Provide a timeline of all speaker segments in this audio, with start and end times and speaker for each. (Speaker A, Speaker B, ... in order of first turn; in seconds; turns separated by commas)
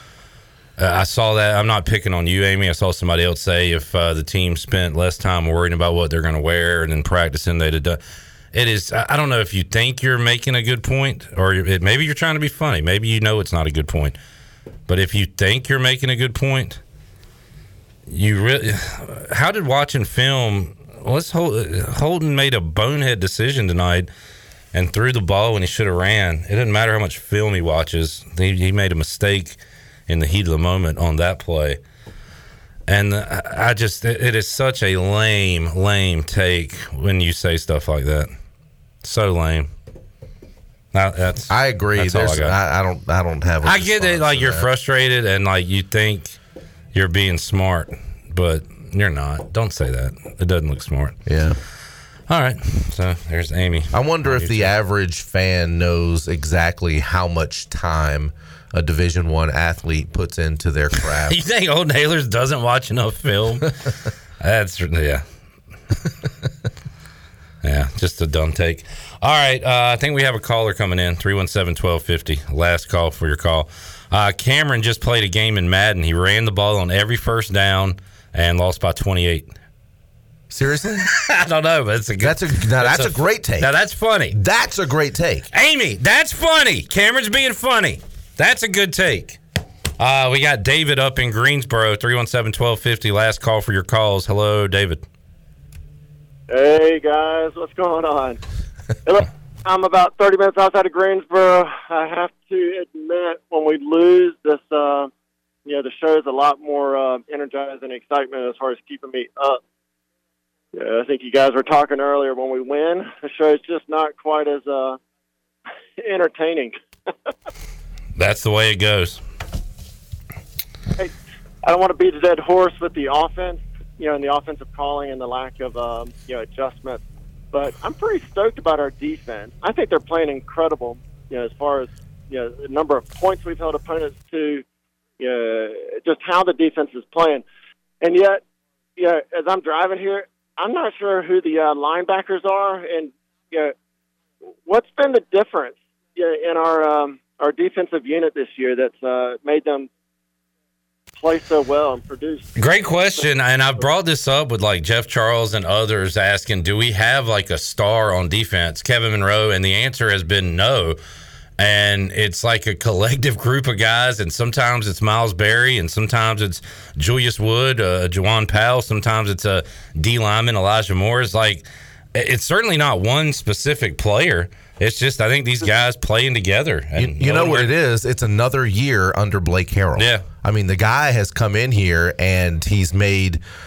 Speaker A: 0.8-8.0, Speaker A: 8.5-14.2, Speaker A: 14.9-16.8, Speaker A: 18.1-24.1, Speaker A: 24.7-31.8, Speaker A: 32.9-38.3, Speaker A: 39.0-39.7, Speaker A: 40.9-42.5, Speaker B: 41.5-44.7, Speaker A: 43.6-46.4, Speaker A: 46.9-51.1, Speaker B: 51.3-51.6, Speaker A: 52.3-54.7, Speaker B: 53.9-61.4, Speaker A: 61.2-63.8, Speaker A: 64.4-65.2, Speaker A: 67.6-79.5, Speaker B: 80.5-81.1, Speaker A: 81.1-84.3, Speaker B: 82.2-83.7, Speaker B: 84.3-85.5, Speaker A: 85.5-89.4, Speaker A: 90.0-95.0, Speaker C: 96.5-98.4, Speaker C: 99.0-105.1, Speaker C: 105.7-109.6, Speaker C: 110.7-115.0, Speaker C: 116.0-116.8, Speaker A: 118.2-119.2, Speaker C: 121.0-134.6, Speaker C: 135.2-137.4, Speaker C: 138.0-138.4, Speaker C: 139.0-143.7, Speaker C: 144.7-149.9, Speaker C: 151.2-152.5, Speaker A: 152.6-161.0, Speaker A: 161.6-177.7, Speaker B: 177.0-183.4, Speaker A: 180.0-180.2